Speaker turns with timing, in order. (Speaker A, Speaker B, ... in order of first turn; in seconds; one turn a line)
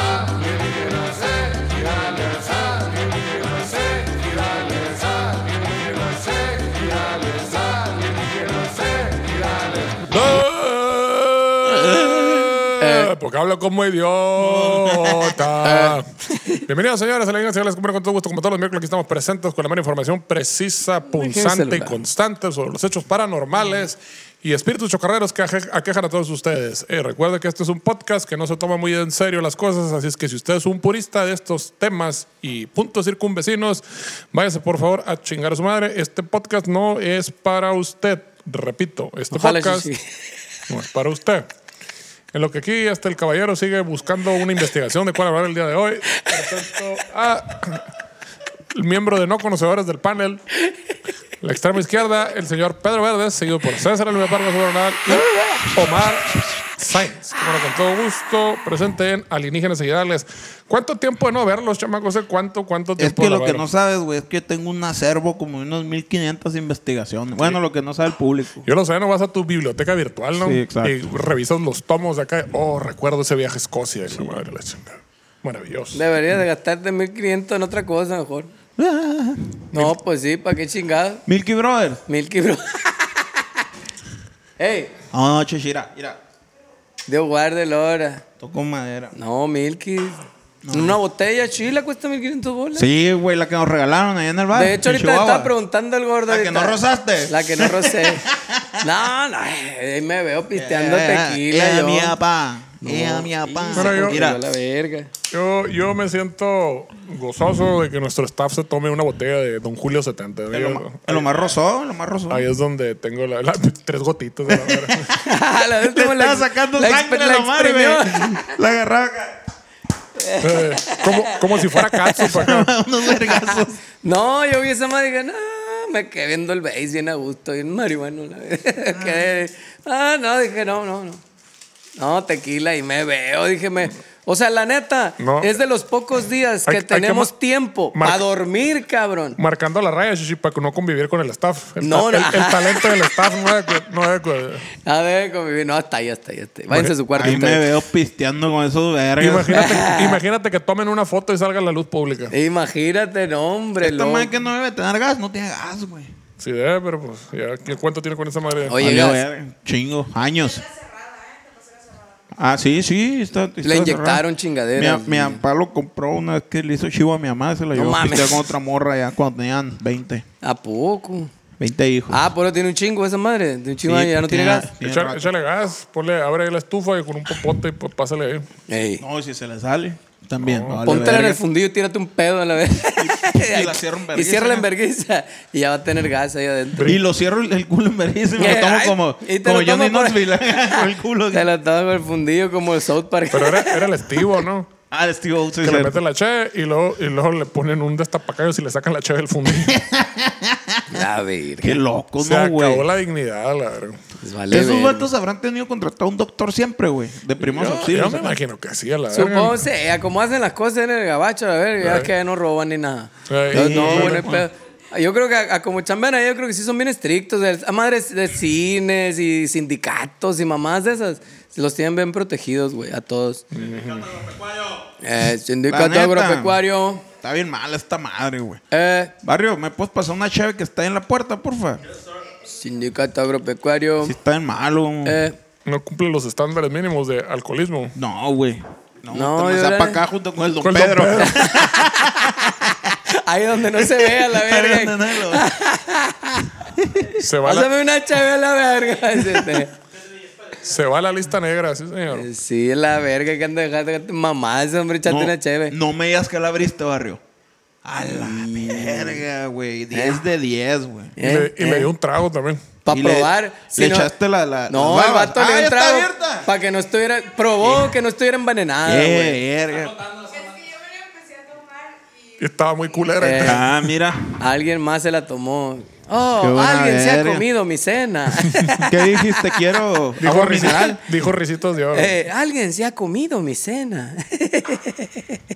Speaker A: 0.1-16.1
Speaker B: 12.8-13.1
Speaker C: 14.4-15.4
Speaker B: 15.6-16.6
Speaker A: 16.7-39.9
Speaker B: 21.1-21.9
Speaker B: 39.3-40.0
Speaker A: 40.7-41.5
Speaker A: 42.3-47.9
Speaker A: 48.7-50.4
Speaker A: 51.4-63.7
Speaker C: 63.0-68.7
Speaker A: 68.7-76.0
Speaker C: 70.4-71.0
Speaker B: 75.9-78.5
Speaker C: 78.8-79.8
Speaker B: 79.7-81.2
Speaker C: 81.3-82.0
Speaker B: 82.1-83.6
Speaker B: 84.6-84.9
Speaker C: 85.1-86.2
Speaker B: 87.1-88.2
Speaker C: 88.4-89.1
Speaker B: 89.1-92.9
Speaker C: 90.7-91.0
Speaker C: 92.8-95.5
Speaker B: 94.5-98.3
Speaker C: 96.3-98.9
Speaker B: 98.8-102.2
Speaker C: 100.6-104.4
Speaker B: 102.8-105.1
Speaker A: 103.7-104.2
Speaker A: 105.3-111.3
Speaker C: 110.5-112.5
Speaker A: 112.3-115.1
Speaker C: 114.5-115.3
Speaker B: 115.2-118.5
Speaker C: 115.8-119.4
Speaker B: 120.2-122.3
Speaker A: 120.4-122.7
Speaker C: 122.2-123.8
Speaker B: 123.2-131.2
Speaker B: 132.0-139.4
Speaker A: 135.2-135.6
Speaker A: 136.7-137.3
Speaker A: 137.9-138.2
Speaker A: 139.4-144.7
Speaker B: 141.8-143.4
Speaker B: 144.8-147.7
Speaker C: 147.2-149.7
Speaker A: 149.2-152.3
Speaker B: 149.5-150.2
Speaker B: 152.3-154.3
Speaker C: 153.8-156.1
Speaker A: 156.4-159.0
Speaker B: 158.7-159.2
Speaker C: 158.8-160.7
Speaker C: 162.3-164.2
Speaker B: 163.6-165.4
Speaker C: 164.8-170.2
Speaker B: 167.8-168.5
Speaker B: 170.4-171.3
Speaker C: 171.6-172.3
Speaker B: 172.1-174.7
Speaker C: 173.8-175.3
Speaker A: 174.8-178.5
Speaker B: 178.7-179.0
Speaker C: 179.0-181.4
Speaker A: 180.4-181.2
Speaker B: 180.8-186.9
Speaker C: 183.0-184.7
Speaker C: 186.8-191.5
Speaker B: 188.4-194.3
Speaker A: 193.3-194.7
Speaker C: 194.9-196.0
Speaker A: 195.6-199.8
Speaker C: 199.5-201.0
Speaker B: 200.9-201.8
Speaker C: 201.6-202.8
Speaker A: 202.2-204.0
Speaker B: 204.2-205.1
Speaker C: 204.5-208.3
Speaker A: 207.4-209.7
Speaker B: 209.1-223.4
Speaker A: 211.8-212.1
Speaker A: 213.3-214.3
Speaker C: 213.5-214.5
Speaker A: 223.5-224.3
Speaker B: 225.0-227.1
Speaker C: 225.7-228.6
Speaker B: 228.7-229.1
Speaker C: 229.2-231.8
Speaker B: 232.5-234.1
Speaker C: 234.0-235.2
Speaker B: 235.1-235.4
Speaker A: 235.7-237.9
Speaker C: 237.9-243.0
Speaker B: 239.1-240.0
Speaker A: 240.6-241.7
Speaker B: 241.2-246.5
Speaker C: 243.7-245.4
Speaker C: 246.8-247.1
Speaker B: 247.1-249.7
Speaker A: 247.2-247.7
Speaker A: 250.6-252.3
Speaker B: 252.1-255.8
Speaker C: 255.1-257.2
Speaker C: 257.8-261.2
Speaker B: 258.1-259.2
Speaker B: 259.9-260.2
Speaker B: 261.2-261.9
Speaker A: 261.2-262.7
Speaker B: 262.9-264.1
Speaker C: 262.9-266.5
Speaker B: 264.7-269.4
Speaker C: 267.6-267.9
Speaker C: 268.9-270.4
Speaker A: 272.4-273.8
Speaker B: 273.2-273.6
Speaker C: 273.4-274.4
Speaker B: 274.4-279.6
Speaker C: 276.4-277.4
Speaker C: 278.9-281.0
Speaker A: 280.2-282.1
Speaker B: 281.9-285.4